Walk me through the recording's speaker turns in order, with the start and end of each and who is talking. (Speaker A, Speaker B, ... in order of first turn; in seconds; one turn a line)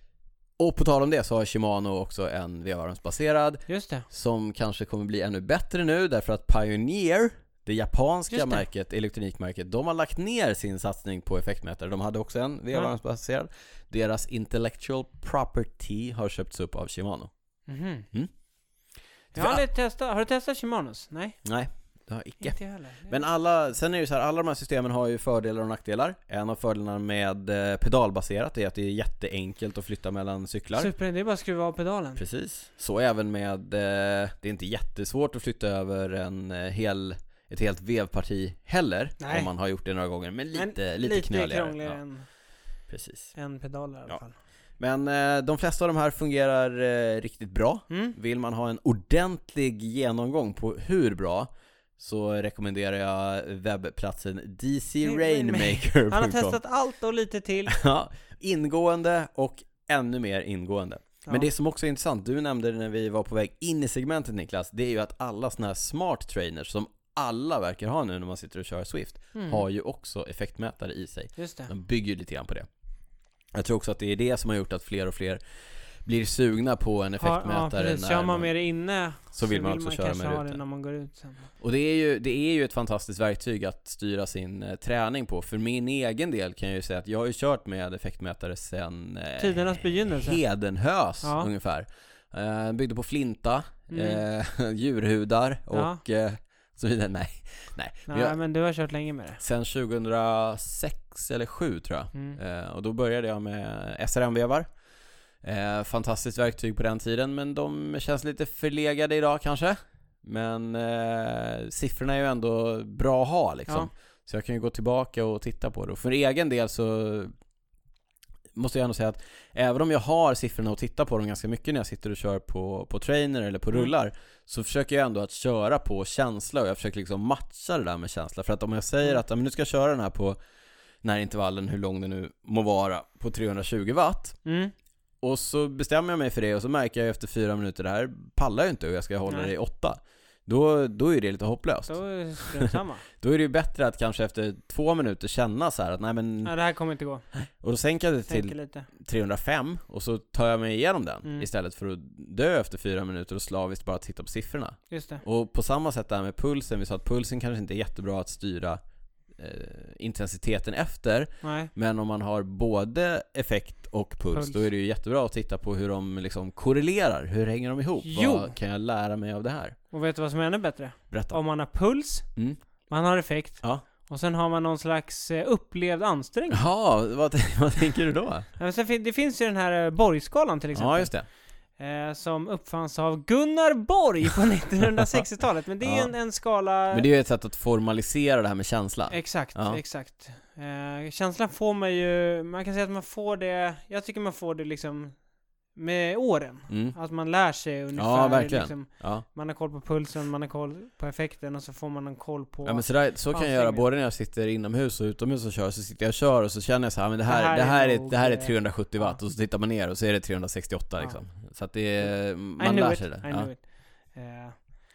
Speaker A: 0.6-17.3
Speaker B: 3.7-4.0
Speaker B: 8.3-8.6
Speaker B: 17.7-18.1
Speaker A: 19.3-19.6
Speaker B: 19.3-21.4
Speaker A: 21.4-22.6
Speaker B: 22.4-23.2
Speaker A: 23.1-30.9
Speaker B: 30.8-32.2
Speaker A: 32.1-42.0
Speaker B: 39.2-39.5
Speaker B: 40.5-42.2
Speaker A: 42.9-43.3
Speaker B: 43.3-44.3
Speaker A: 44.8-56.6
Speaker B: 47.9-48.1
Speaker B: 55.0-57.8
Speaker A: 57.7-72.7
Speaker B: 69.3-69.6
Speaker B: 71.4-71.7
Speaker A: 73.5-75.4
Speaker A: 76.0-78.5
Speaker B: 77.2-81.5
Speaker A: 79.3-80.6
Speaker A: 81.6-98.4
Speaker B: 89.4-90.4
Speaker B: 91.2-91.5
Speaker B: 93.9-94.2
Speaker B: 95.7-96.0
Speaker B: 98.1-99.4
Speaker A: 99.4-104.7
Speaker A: 105.4-117.3
Speaker A: 118.5-130.4
Speaker A: 131.0-134.4
Speaker B: 134.4-134.7
Speaker A: 135.2-146.5
Speaker B: 139.3-139.5
Speaker B: 141.9-143.0
Speaker B: 146.4-147.3
Speaker A: 147.3-158.8
Speaker B: 148.3-148.9
Speaker B: 154.9-155.2
Speaker A: 159.3-169.8
Speaker B: 161.4-161.7
Speaker B: 164.3-164.6
Speaker B: 168.0-168.5
Speaker B: 169.9-172.3
Speaker A: 171.1-171.4
Speaker B: 172.9-176.6
Speaker A: 176.5-178.5
Speaker B: 178.6-181.1
Speaker A: 180.7-181.2
Speaker B: 181.8-187.1
Speaker A: 185.8-186.1
Speaker A: 186.9-189.8
Speaker B: 189.1-195.2
Speaker B: 195.7-203.8
Speaker A: 196.7-196.9
Speaker A: 197.9-199.2
Speaker A: 202.6-213.5
Speaker B: 207.3-209.2
Speaker B: 212.0-214.7